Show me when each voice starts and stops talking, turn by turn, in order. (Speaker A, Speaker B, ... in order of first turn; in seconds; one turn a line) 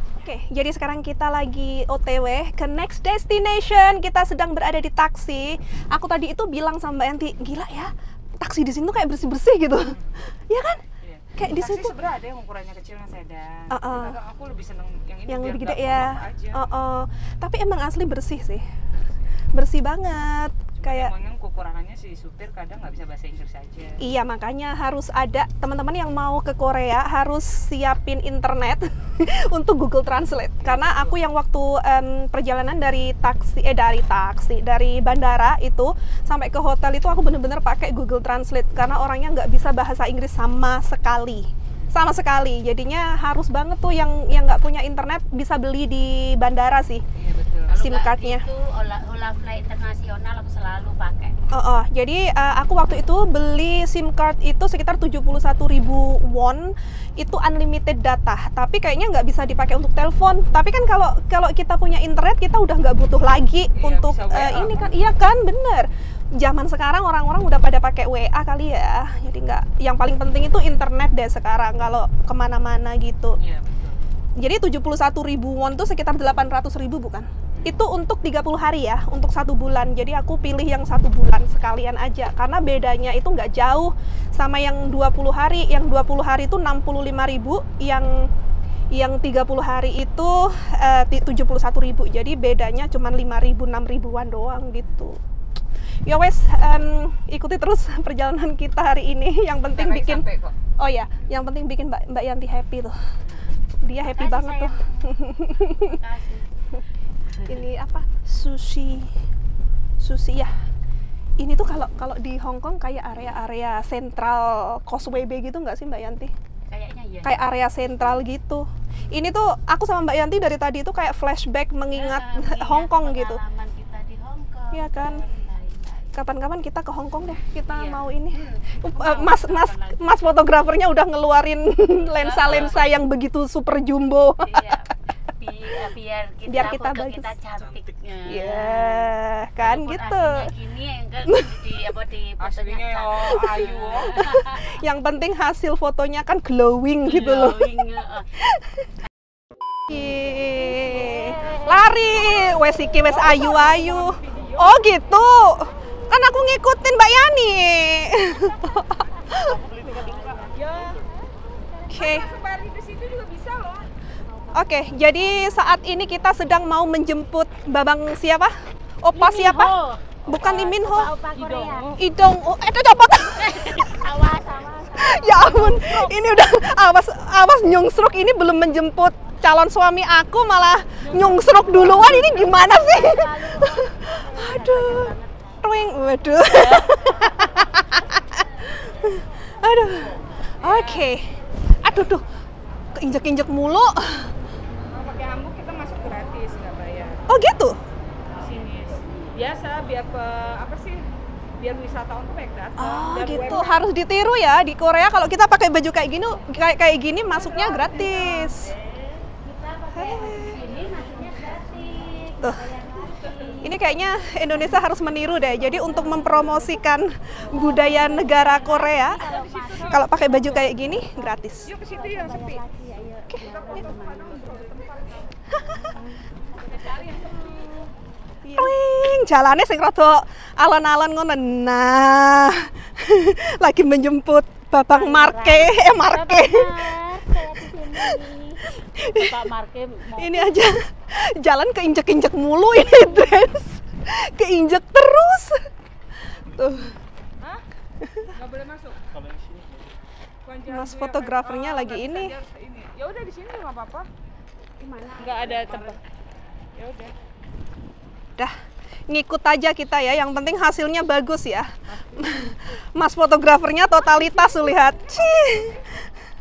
Speaker A: 0.2-10.8
Speaker B: 11.0-16.6
Speaker A: 11.4-12.0
Speaker A: 13.7-14.2
Speaker A: 15.3-18.7
Speaker B: 19.0-19.3
Speaker A: 19.5-21.1
Speaker B: 20.8-24.0
Speaker A: 24.0-47.0
Speaker B: 30.6-31.2
Speaker B: 47.2-47.7
Speaker C: 47.7-51.4
Speaker A: 47.7-48.4
Speaker A: 51.5-73.4
Speaker B: 63.8-64.9
Speaker B: 73.4-74.0
Speaker A: 74.4-88.1
Speaker A: 88.9-95.2
Speaker A: 96.1-100.2
Speaker B: 99.7-100.5
Speaker A: 100.8-103.0
Speaker A: 103.8-106.0
Speaker C: 104.0-105.1
Speaker C: 105.8-106.5
Speaker A: 107.5-109.1
Speaker A: 110.0-110.5
Speaker A: 111.4-116.3
Speaker C: 116.7-118.1
Speaker A: 117.2-123.4
Speaker C: 121.9-126.2
Speaker A: 124.7-125.2
Speaker A: 126.1-134.8
Speaker B: 127.7-128.1
Speaker C: 128.3-130.1
Speaker B: 132.1-132.8
Speaker C: 132.3-132.7
Speaker C: 134.4-144.7
Speaker A: 136.5-137.3
Speaker D: 137.5-137.9
Speaker A: 138.3-140.5
Speaker A: 141.3-141.7
Speaker B: 142.4-144.2
Speaker A: 143.6-147.8
Speaker C: 147.1-148.3
Speaker A: 148.4-148.9
Speaker A: 149.9-159.4
Speaker C: 149.9-152.6
Speaker B: 153.0-154.8
Speaker C: 158.3-162.2
Speaker D: 159.4-161.1
Speaker B: 160.5-161.0
Speaker A: 161.9-162.3
Speaker B: 161.9-163.9
Speaker C: 164.3-165.8
Speaker A: 164.5-169.8
Speaker C: 169.1-171.9
Speaker A: 170.3-171.1
Speaker B: 171.3-172.0
Speaker A: 172.0-174.1
Speaker C: 173.3-176.5
Speaker A: 175.0-185.1
Speaker B: 181.1-182.2
Speaker C: 181.4-185.3
Speaker A: 185.6-191.3
Speaker C: 186.5-187.7
Speaker B: 190.6-191.1
Speaker A: 191.8-192.2
Speaker A: 192.9-194.3
Speaker B: 194.9-197.2
Speaker A: 197.3-197.8
Speaker B: 198.3-201.0
Speaker B: 201.6-203.8
Speaker A: 202.8-208.7
Speaker C: 203.3-203.6
Speaker C: 207.5-213.8
Speaker A: 209.9-210.6
Speaker A: 213.6-219.3
Speaker C: 215.7-216.8
Speaker C: 217.4-224.9
Speaker B: 219.2-220.2
Speaker A: 219.9-221.7
Speaker B: 221.7-222.6
Speaker B: 223.4-225.3
Speaker A: 225.5-225.9
Speaker C: 225.5-227.9
Speaker B: 226.0-227.9
Speaker A: 228.4-236.9
Speaker C: 234.9-240.6
Speaker A: 238.9-239.5
Speaker A: 240.2-245.6
Speaker A: 246.2-246.9
Speaker D: 246.4-246.8
Speaker A: 248.0-248.3
Speaker B: 248.3-249.0
Speaker D: 249.1-250.0
Speaker B: 250.4-254.1
Speaker A: 250.7-252.3
Speaker C: 254.8-256.0
Speaker B: 255.2-256.0
Speaker B: 256.8-257.1
Speaker A: 259.1-265.8
Speaker B: 261.9-262.2
Speaker B: 265.1-265.8